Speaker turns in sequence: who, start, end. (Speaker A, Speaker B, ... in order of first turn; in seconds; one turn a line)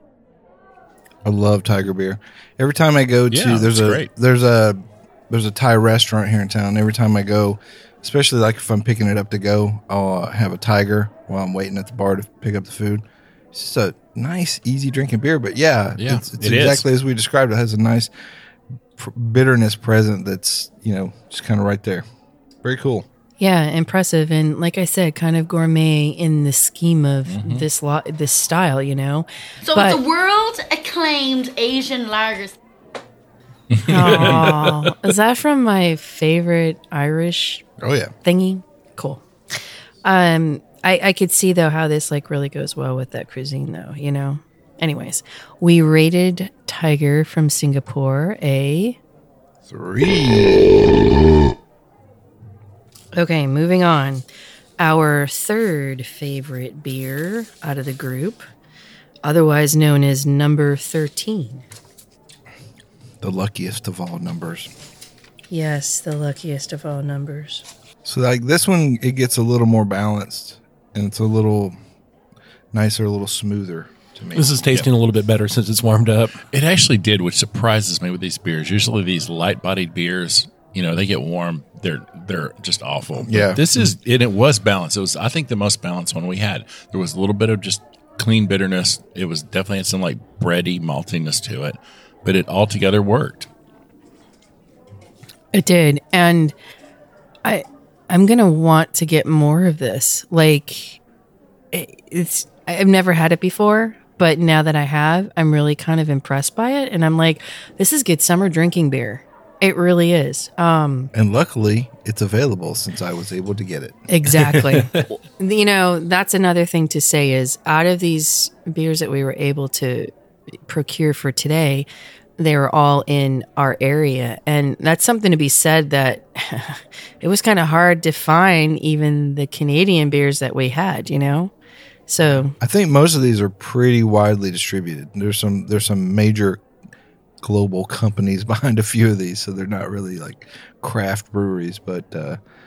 Speaker A: 1.2-18.1
Speaker B: 3.3-4.1
Speaker B: 16.0-16.8
Speaker A: 19.0-22.0
Speaker A: 22.6-23.1
Speaker C: 23.4-30.0
Speaker B: 27.3-27.6
Speaker D: 29.6-32.6
Speaker B: 33.7-34.7
Speaker C: 33.8-37.6
Speaker A: 37.8-38.1
Speaker C: 38.2-39.2
Speaker C: 40.0-49.0
Speaker A: 49.7-50.9
Speaker C: 53.1-54.2
Speaker C: 54.8-58.4
Speaker C: 59.2-61.6
Speaker A: 63.2-64.7
Speaker C: 65.5-67.6
Speaker A: 68.0-71.8
Speaker A: 72.7-74.7
Speaker E: 74.3-76.4
Speaker B: 76.5-93.5
Speaker A: 83.2-83.9
Speaker C: 95.5-96.5
Speaker C: 97.4-101.0
Speaker C: 101.7-111.1
Speaker A: 111.1-114.0
Speaker C: 114.1-120.1
Speaker E: 114.6-115.0
Speaker C: 120.7-121.9
Speaker C: 122.4-131.5
Speaker C: 132.1-132.5
Speaker A: 132.3-136.6
Speaker A: 137.4-142.4